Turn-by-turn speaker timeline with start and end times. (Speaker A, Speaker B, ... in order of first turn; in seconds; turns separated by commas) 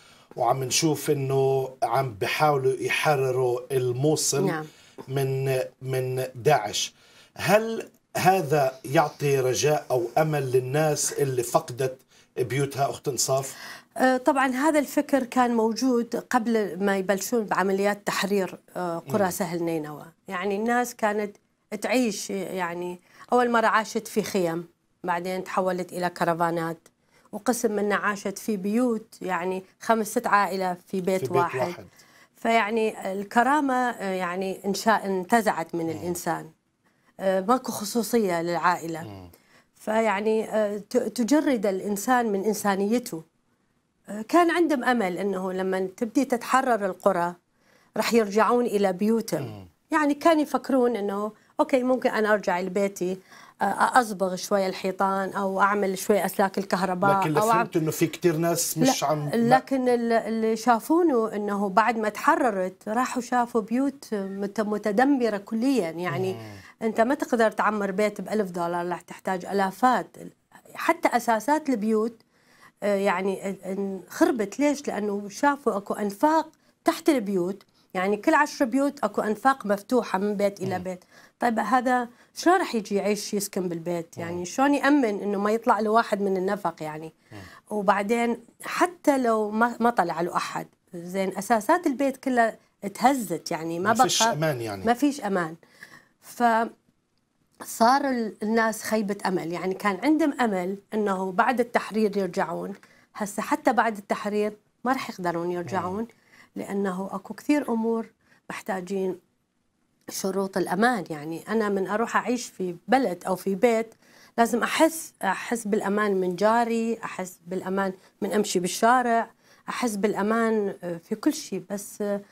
Speaker A: 0.3-4.6, Speaker B: 4.4-4.7, Speaker A: 5.1-13.5, Speaker B: 14.0-31.8, Speaker A: 19.1-19.3, Speaker A: 31.2-31.9, Speaker B: 32.4-36.5, Speaker B: 37.2-39.1, Speaker B: 39.8-43.2, Speaker B: 44.3-47.3, Speaker B: 48.0-57.7, Speaker A: 57.0-59.6, Speaker B: 58.8-70.3, Speaker A: 66.1-66.5, Speaker B: 70.8-72.2, Speaker B: 72.9-87.1, Speaker B: 87.7-95.5, Speaker A: 93.8-94.9, Speaker B: 96.2-96.7, Speaker B: 97.7-109.1, Speaker A: 105.7-106.0, Speaker B: 110.2-122.0